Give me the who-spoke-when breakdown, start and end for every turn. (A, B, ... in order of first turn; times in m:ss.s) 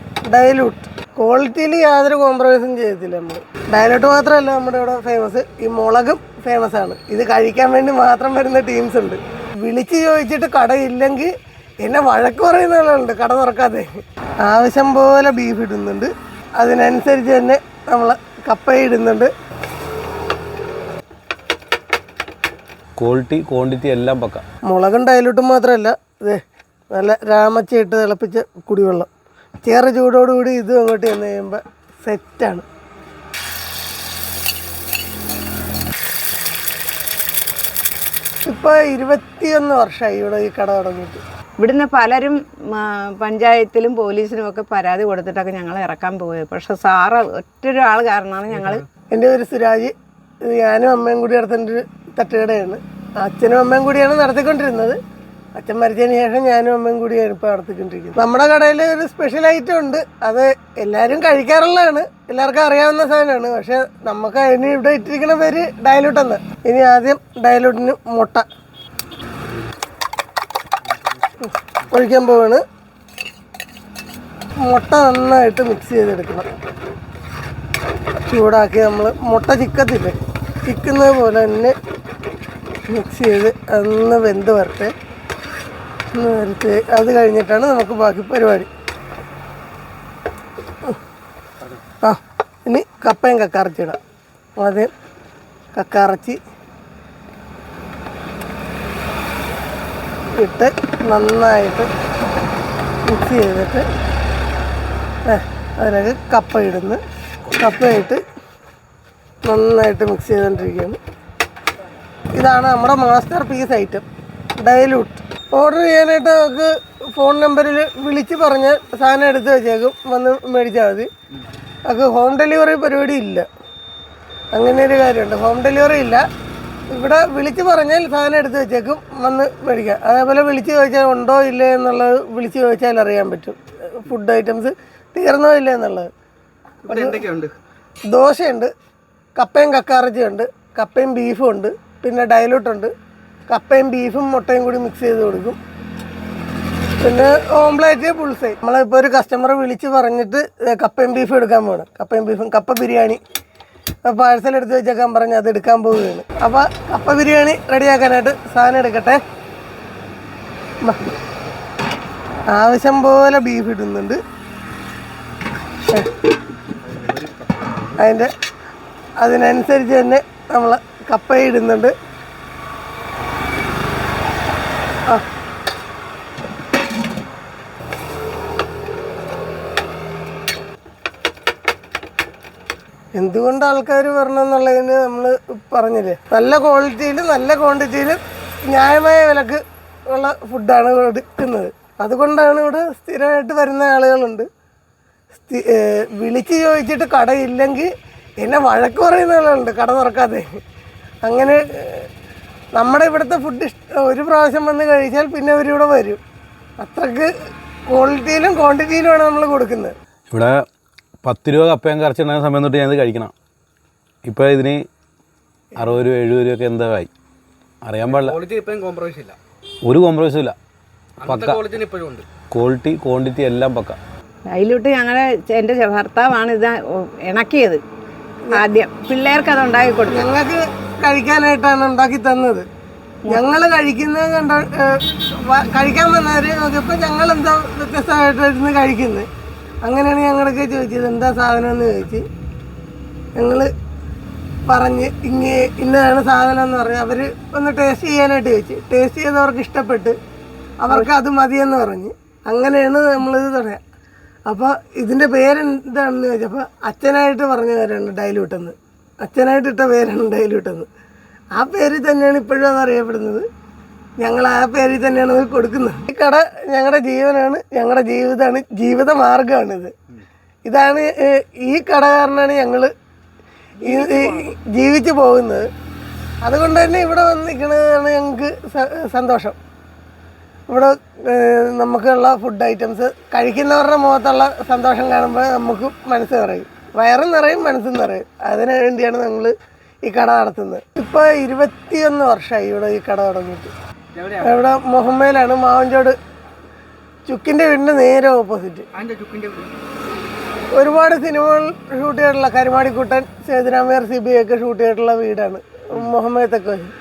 0:00.3-0:11.3 A
0:11.8-0:13.9 A
0:14.4-0:19.3 A
0:23.0-0:24.4 B
0:24.7-0:26.4 A
0:26.9-0:29.1 A
0:29.6-0:32.6 A
0:38.4-0:41.2 A
0:41.6-0:48.8 C
0:48.5-0:48.8 D
0:49.1-0:55.0 A
0:55.6-1:08.4 A
1:11.4-1:12.6 A
1:14.6-1:16.5 A
1:18.3-1:21.7 A
1:22.9-1:24.9 A
1:26.1-1:28.7 A
1:32.0-1:34.0 A
1:34.6-1:34.9 A
1:35.7-1:36.4 A
1:40.4-1:41.9 A
1:43.1-1:43.8 A
1:45.3-1:48.2 A
1:49.4-1:51.0 A
1:52.3-1:54.0 A
1:54.6-2:01.1 A
2:01.9-2:03.5 A
2:04.5-2:06.2 A
2:06.9-2:16.1 A
2:16.8-2:17.5 D
2:16.9-2:17.2 A
2:18.1-2:18.7 A
2:19.4-2:22.9 A
2:23.5-2:25.6 A
2:27.0-2:33.2 A
2:34.0-2:39.2 A
2:42.5-2:44.2 A
2:46.9-2:47.9 D
2:48.0-2:48.3 A
2:49.2-2:51.9 A
3:03.2-3:14.5 A
3:15.3-3:20.4 A
3:21.2-3:22.1 A
3:22.7-3:26.2 A
3:26.8-3:27.3 A
3:27.9-3:29.9 A
3:30.3-3:30.6 B
3:31.2-3:33.3 B
3:34.2-3:34.8 B
3:35.8-3:37.1 B
3:37.8-3:38.4 B
3:38.0-3:39.4 D
3:39.8-3:40.6 B
3:41.2-3:42.3 D
3:41.2-3:41.6 B
3:42.5-3:44.0 B
3:44.5-3:46.8 C
3:47.3-3:47.8 C
3:48.5-3:50.3 C
3:50.1-3:52.6 A
3:53.3-3:59.3 A
3:59.8-4:02.2 A
4:03.4-4:03.7 A
4:04.7-4:10.2 A
4:10.8-4:13.8 A
4:14.5-4:20.9 A
4:21.5-4:23.4 A
4:24.2-4:29.9 A
4:30.6-4:32.9 A
4:33.8-4:35.7 A
4:33.8-4:34.4 D
4:36.4-4:39.6 A
4:40.7-4:49.5 A
4:50.0-4:53.7 A
4:54.1-4:54.6 D
4:54.4-4:56.2 A
4:57.3-4:58.9 A
4:58.9-4:59.7 D
5:00.7-5:06.9 A